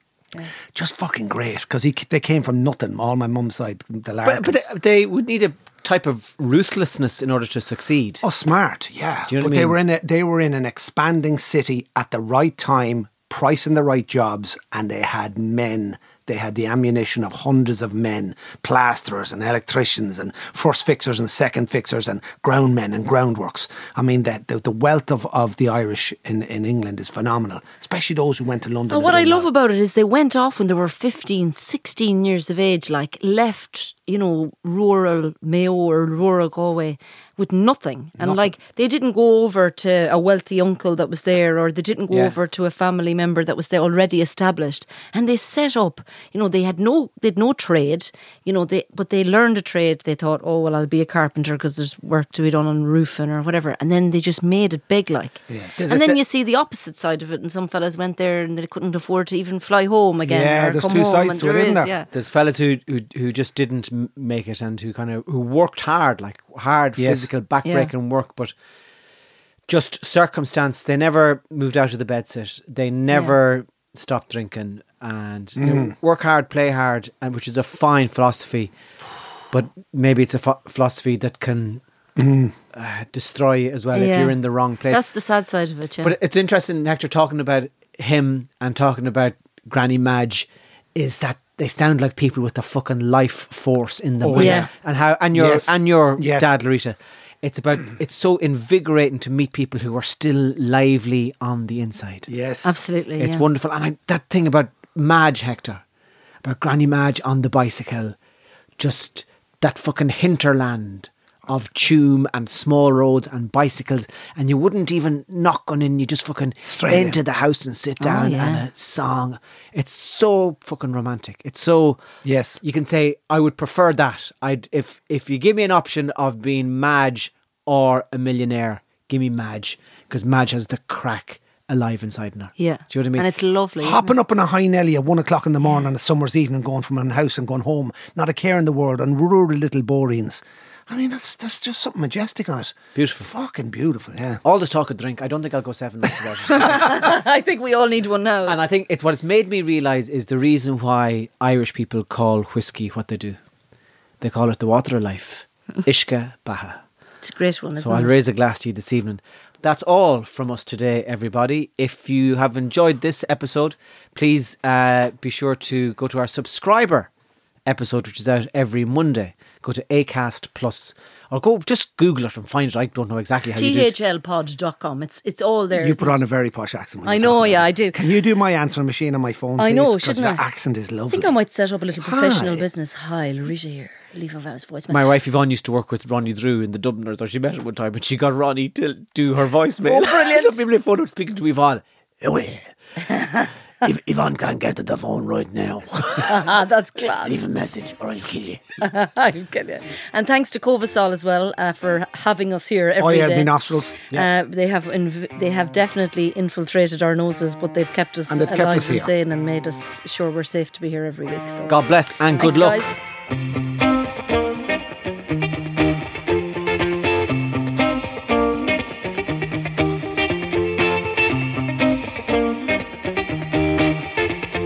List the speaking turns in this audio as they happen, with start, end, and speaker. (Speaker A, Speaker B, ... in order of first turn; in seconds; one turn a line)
Speaker A: 0.7-4.7
Speaker B: 4.2-8.2
Speaker A: 8.2-29.5
Speaker B: 9.3-9.8
Speaker C: 28.9-62.1
Speaker B: 42.1-42.4
Speaker A: 55.5-56.2
Speaker A: 60.2-61.9
Speaker B: 62.1-68.5
Speaker A: 67.0-67.3
Speaker C: 67.6-67.9
Speaker B: 69.7-78.7
Speaker C: 73.1-73.3
Speaker A: 75.6-75.9
Speaker B: 79.5-81.8
Speaker A: 82.2-82.5
Speaker B: 82.7-85.0
Speaker C: 83.9-84.4
Speaker C: 84.9-86.1
Speaker B: 86.0-102.3
Speaker A: 94.2-94.7
Speaker C: 94.3-94.7
Speaker A: 95.3-96.5
Speaker A: 102.3-102.8
Speaker C: 102.6-103.4
Speaker B: 103.2-105.8
Speaker B: 106.4-108.2
Speaker B: 108.8-122.0
Speaker A: 116.7-117.2
Speaker C: 118.0-118.7
Speaker A: 122.2-122.6
Speaker B: 122.6-133.2
Speaker C: 132.6-134.1
Speaker A: 133.8-144.4
Speaker B: 142.9-143.3
Speaker B: 144.4-147.1
Speaker C: 146.6-148.6
Speaker B: 148.4-153.4
Speaker B: 154.2-156.8
Speaker C: 157.2-158.1
Speaker B: 157.8-167.1
Speaker B: 167.7-173.9
Speaker C: 173.6-176.1
Speaker A: 175.8-181.3
Speaker C: 177.0-178.1
Speaker C: 179.6-180.4
Speaker C: 181.1-185.0
Speaker A: 182.0-182.7
Speaker B: 184.9-192.7
Speaker C: 189.8-190.6
Speaker C: 193.1-193.5
Speaker B: 193.8-198.6
Speaker C: 196.2-197.4
Speaker C: 198.8-203.5
Speaker A: 203.0-204.0
Speaker C: 204.1-211.8
Speaker A: 208.3-209.1
Speaker B: 211.7-212.8
Speaker C: 212.4-213.0